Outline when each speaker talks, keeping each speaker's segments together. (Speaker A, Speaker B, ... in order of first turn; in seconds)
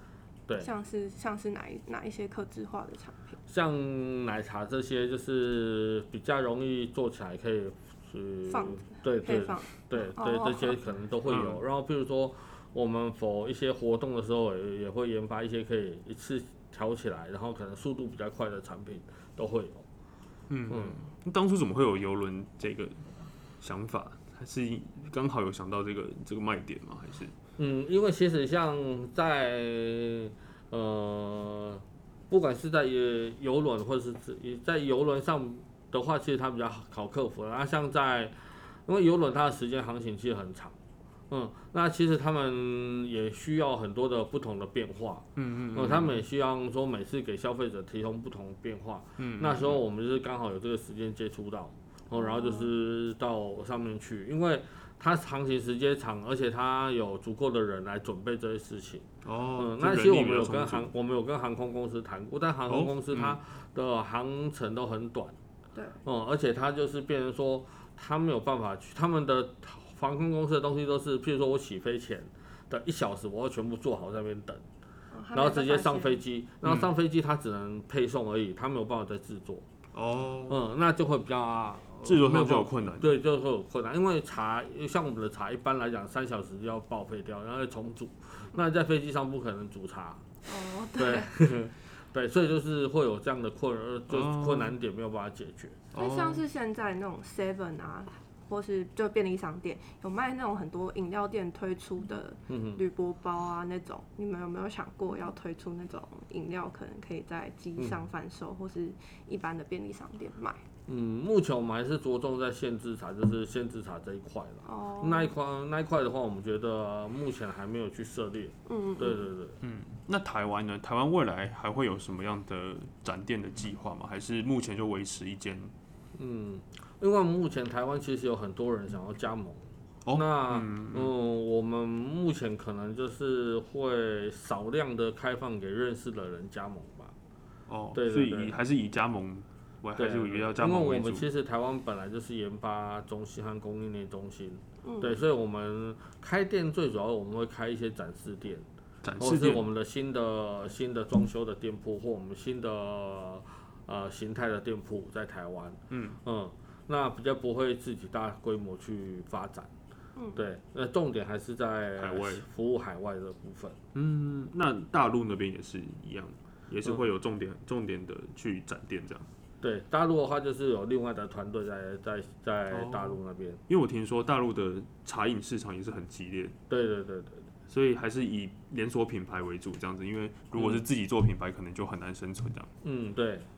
Speaker A: 0.6-3.4, 8.5-10.8, 52.1-52.7, 65.7-66.0, 75.1-76.2, 90.5-91.3, 95.9-110.6, 114.6-115.3, 118.7-119.3, 144.8-145.2, 160.2-160.4
Speaker B: 3.5-19.8, 20.7-21.0, 27.6-40.8, 41.3-65.3, 66.0-74.6, 75.3-79.7, 80.5-90.2, 90.9-95.8, 102.5-102.8, 110.9-119.6, 126.1-137.1, 137.9-138.6, 139.9-148.7, 149.2-159.7, 160.3-163.8, 169.6-173.6, 176.7-177.5, 180.6-180.8, 182.8-183.5
Speaker C: 11.3-11.6, 20.5-23.0, 23.6-27.3, 45.4-46.2, 49.2-49.8, 59.2-60.9, 62.7-63.4, 79.9-80.6, 82.0-83.1, 94.1-94.7, 95.9-96.4, 119.6-125.7, 130.0-131.1, 137.7-141.3, 149.0-149.6, 155.9-156.2, 162.0-162.4, 163.9-169.3, 172.7-176.5, 177.7-182.7